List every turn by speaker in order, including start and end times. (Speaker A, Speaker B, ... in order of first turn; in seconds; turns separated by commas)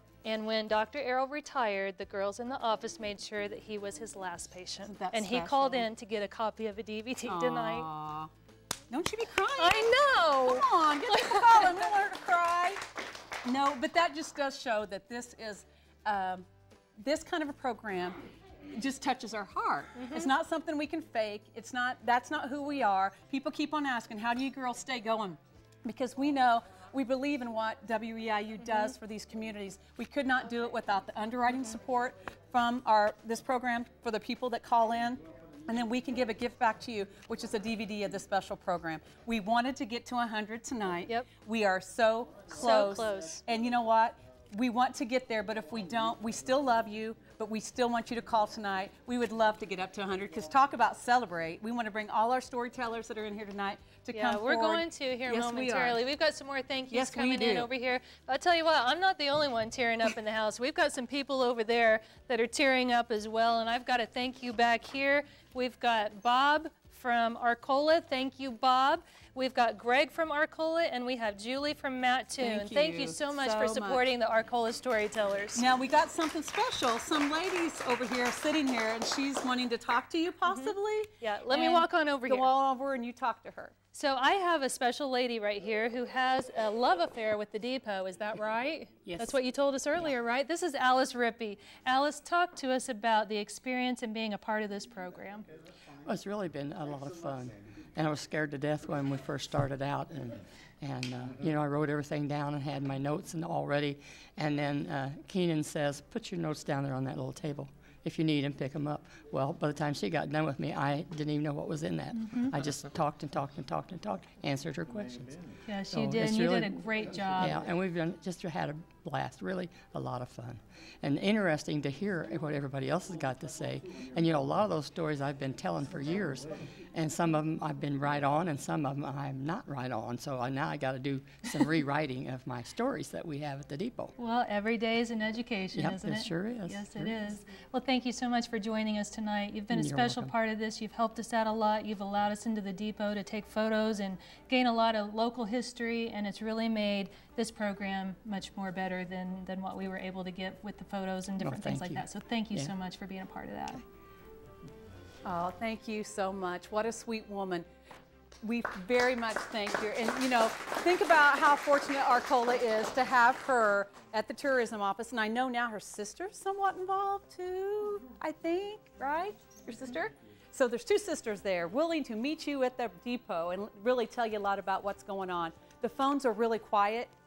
Speaker A: 0.2-7.9, Speaker B: 4.8-5.9, Speaker B: 7.2-8.3, Speaker B: 8.9-12.8, Speaker A: 9.6-11.9, Speaker B: 13.4-16.4, Speaker B: 17.0-56.0, Speaker A: 20.0-20.3, Speaker A: 28.6-28.9, Speaker A: 42.5-43.4, Speaker A: 54.1-75.6, Speaker B: 56.9-57.7, Speaker B: 72.4-74.0, Speaker B: 75.5-83.8, Speaker A: 80.5-82.5, Speaker A: 83.9-95.5, Speaker B: 89.0-89.4, Speaker C: 96.0-134.1, Speaker A: 112.2-112.5, Speaker A: 115.7-117.6, Speaker A: 134.2-153.8, Speaker C: 135.7-137.2, Speaker C: 139.7-140.3, Speaker C: 151.4-152.7, Speaker B: 155.2-157.7, Speaker B: 158.4-177.1